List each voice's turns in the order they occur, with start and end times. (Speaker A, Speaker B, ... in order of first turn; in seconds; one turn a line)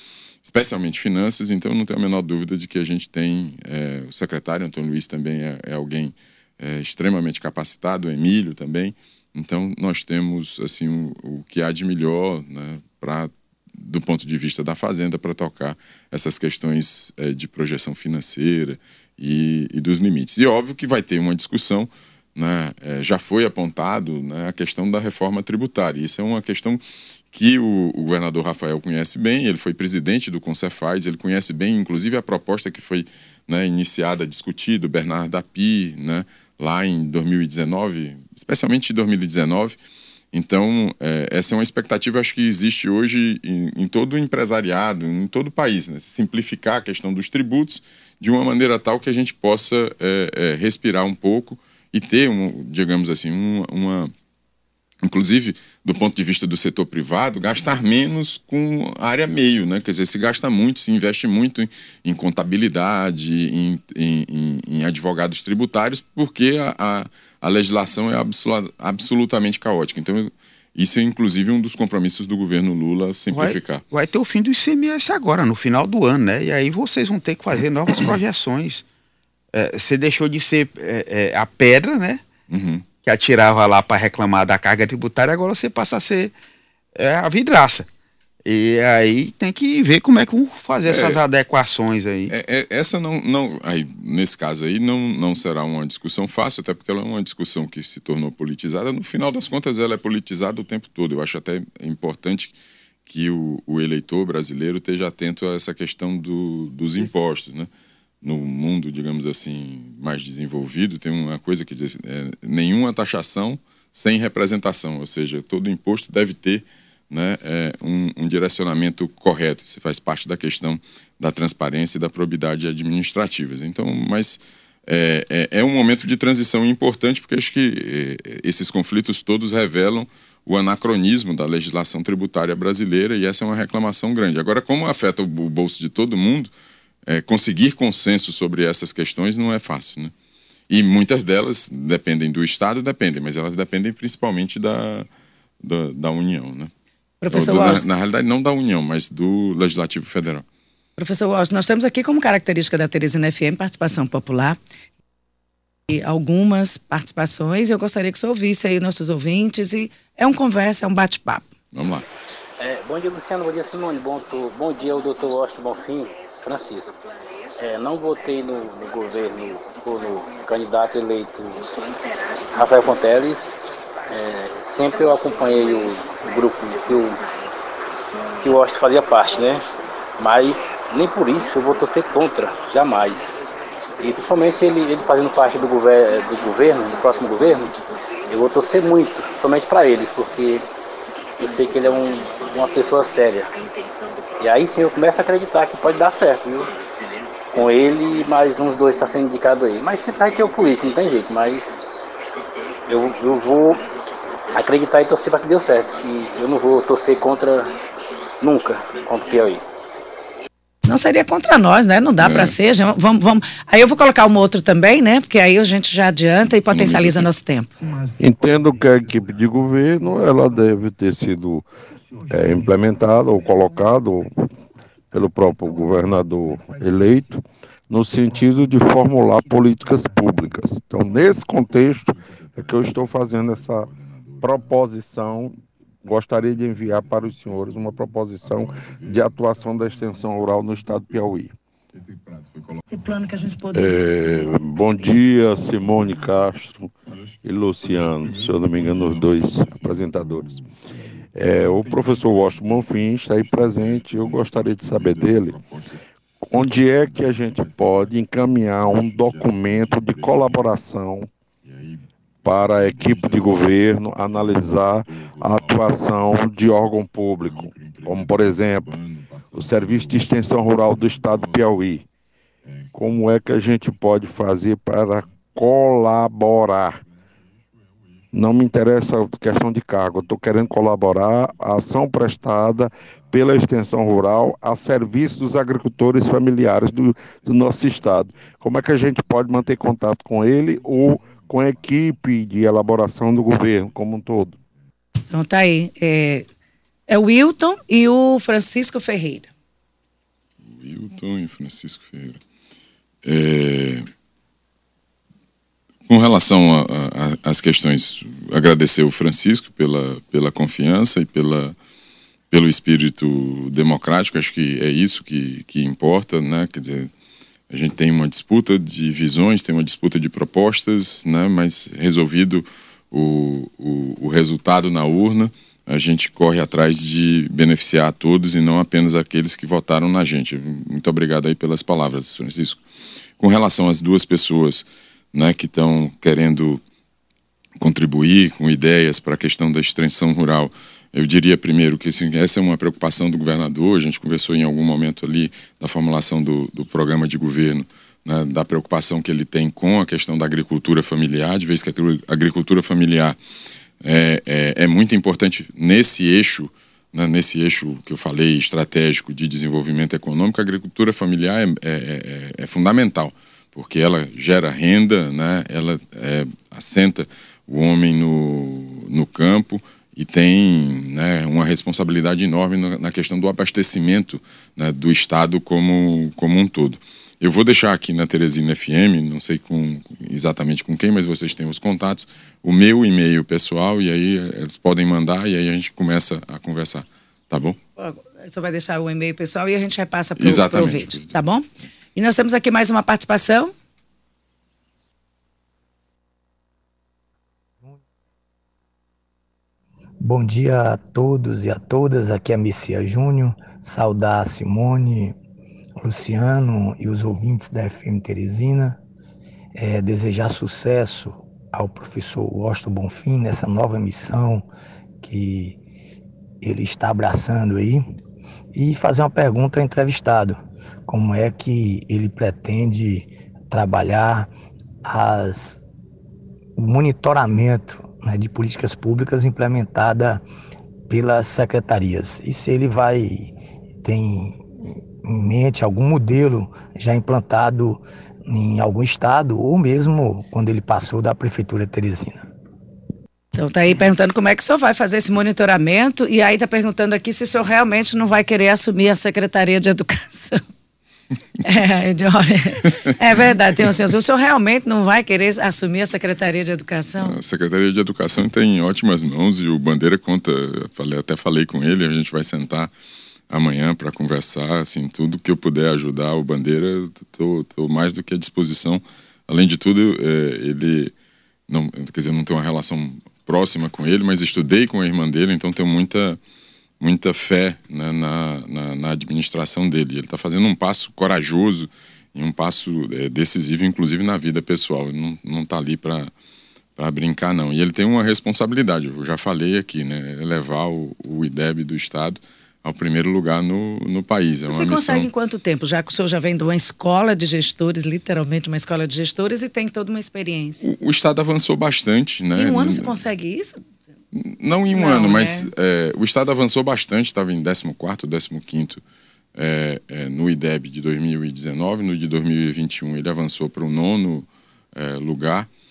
Speaker A: 0.4-39.8
Speaker A: 40.3-54.1
Speaker A: 55.0-73.8
Speaker B: 73.3-78.8
Speaker B: 79.5-82.2
Speaker A: 82.5-82.8
Speaker B: 83.0-86.3
Speaker B: 86.9-87.9
Speaker B: 88.5-92.3
Speaker A: 90.8-91.2
Speaker A: 92.3-102.5
Speaker A: 103.0-107.7
Speaker A: 108.2-136.5
Speaker A: 137.1-140.1
Speaker A: 140.7-145.1
Speaker A: 145.6-146.7
Speaker C: 147.2-147.9
Speaker A: 147.3-150.4
Speaker C: 151.0-154.6
Speaker C: 155.9-161.5
Speaker A: 161.7-162.0
Speaker D: 162.6-166.9
Speaker D: 167.6-171.7
Speaker D: 172.5-177.2
Speaker D: 178.4-179.7
Speaker D: 180.2-183.3
Speaker D: 184.0-187.8
Speaker D: 188.3-190.7
Speaker D: 191.4-193.6
Speaker D: 194.4-196.7
Speaker D: 197.5-201.8
Speaker D: 202.9-203.8
Speaker D: 204.5-207.7
Speaker D: 208.4-209.6
Speaker C: 210.8-217.7
Speaker A: 212.2-212.5
Speaker A: 216.7-217.2
Speaker E: 218.2-221.7
Speaker E: 222.2-224.5
Speaker E: 225.1-241.5
Speaker C: 242.9-243.7
Speaker E: 243.7-250.6
Speaker E: 251.3-255.6
Speaker E: 256.4-261.3
Speaker E: 262.4-269.0
Speaker E: 269.5-272.1
Speaker E: 272.9-277.0
Speaker E: 278.3-294.5
Speaker C: 295.3-296.4
Speaker C: 297.1-299.5
Speaker A: 300.6-302.4
Speaker A: 303.2-304.0
Speaker A: 306.1-311.8
Speaker A: 312.5-317.1
Speaker A: 317.7-332.8
Speaker A: 333.4-336.8
Speaker A: 337.8-353.4
Speaker A: 354.0-387.8
Speaker C: 388.0-393.7
Speaker A: 390.4-391.3
Speaker F: 400.2-405.4
Speaker F: 406.0-409.0
Speaker F: 409.7-414.6
Speaker F: 415.2-415.8
Speaker F: 416.6-418.0
Speaker F: 418.7-424.5
Speaker F: 425.0-425.8
Speaker F: 426.8-430.4
Speaker F: 431.1-434.6
Speaker F: 435.2-442.4
Speaker C: 443.5-450.6
Speaker C: 451.6-457.4
Speaker A: 457.2-462.9
Speaker A: 463.5-471.1
Speaker A: 471.7-476.4
Speaker A: 477.0-486.3
Speaker A: 487.0-495.3
Speaker C: 494.6-500.8
Speaker A: 500.8-503.1
Speaker C: 502.6-503.8
Speaker A: 504.3-509.0
Speaker C: 504.9-505.7
Speaker A: 509.5-515.7